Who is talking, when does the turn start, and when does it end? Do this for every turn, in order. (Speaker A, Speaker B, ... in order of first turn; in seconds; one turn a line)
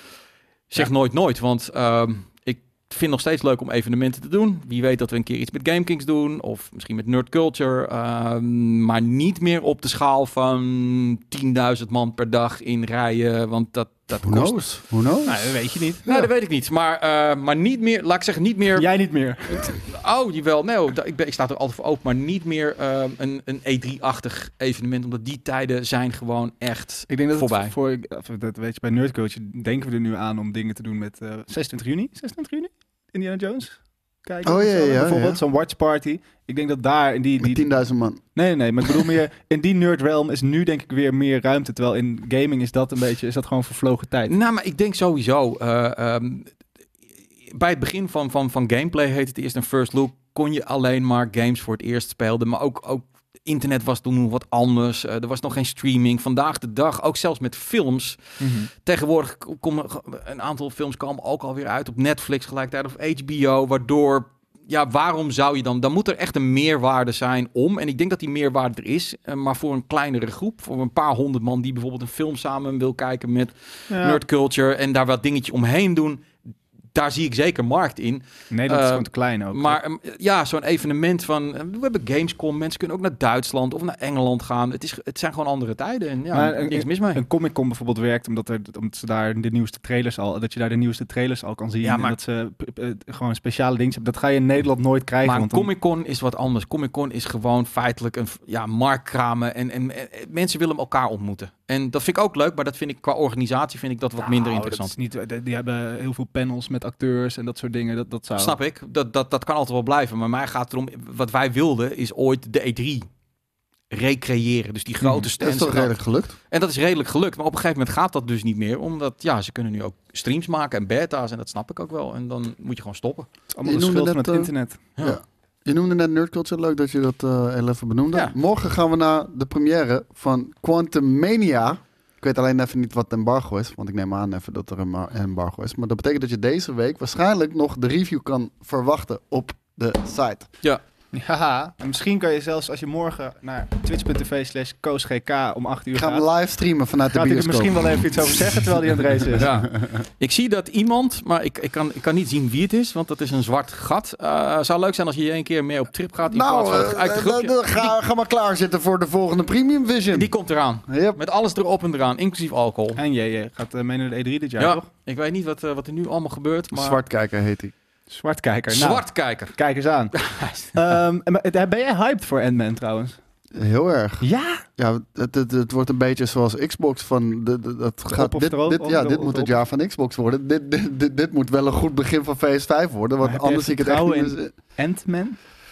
Speaker A: 0.7-14.6
Speaker B: 14.2-15.5
Speaker C: 15.2-16.1
Speaker A: 16.0-18.9
Speaker C: 18.8-19.7
Speaker A: 19.6-27.7
Speaker C: 27.1-37.7
Speaker B: 34.4-35.4
Speaker B: 37.4-38.2
Speaker C: 38.3-44.3
Speaker A: 44.3-46.5
Speaker A: 47.5-76.3
Speaker C: 58.4-58.7
Speaker C: 73.9-74.2
Speaker A: 76.9-87.2
Speaker C: 78.5-79.8
Speaker C: 86.3-95.7
Speaker A: 91.8-92.2
Speaker A: 95.2-104.9
Speaker C: 104.2-108.6
Speaker A: 108.3-113.1
Speaker A: 113.9-115.9
Speaker B: 115.4-116.3
Speaker A: 116.5-123.3
Speaker C: 123.5-124.8
Speaker B: 123.6-140.5
Speaker C: 141.1-146.2
Speaker B: 145.9-148.6
Speaker C: 147.1-149.5
Speaker A: 149.3-157.9
Speaker B: 149.3-149.9
Speaker B: 156.3-160.3
Speaker A: 160.1-163.0
Speaker B: 160.9-161.2
Speaker C: 162.9-164.9
Speaker A: 164.6-167.0
Speaker B: 166.7-167.7
Speaker C: 168.1-170.1
Speaker A: 168.7-169.6
Speaker A: 170.1-170.7
Speaker C: 170.7-173.2
Speaker B: 173.5-184.5
Speaker C: 174.2-174.6
Speaker C: 178.1-179.5
Speaker C: 183.2-185.4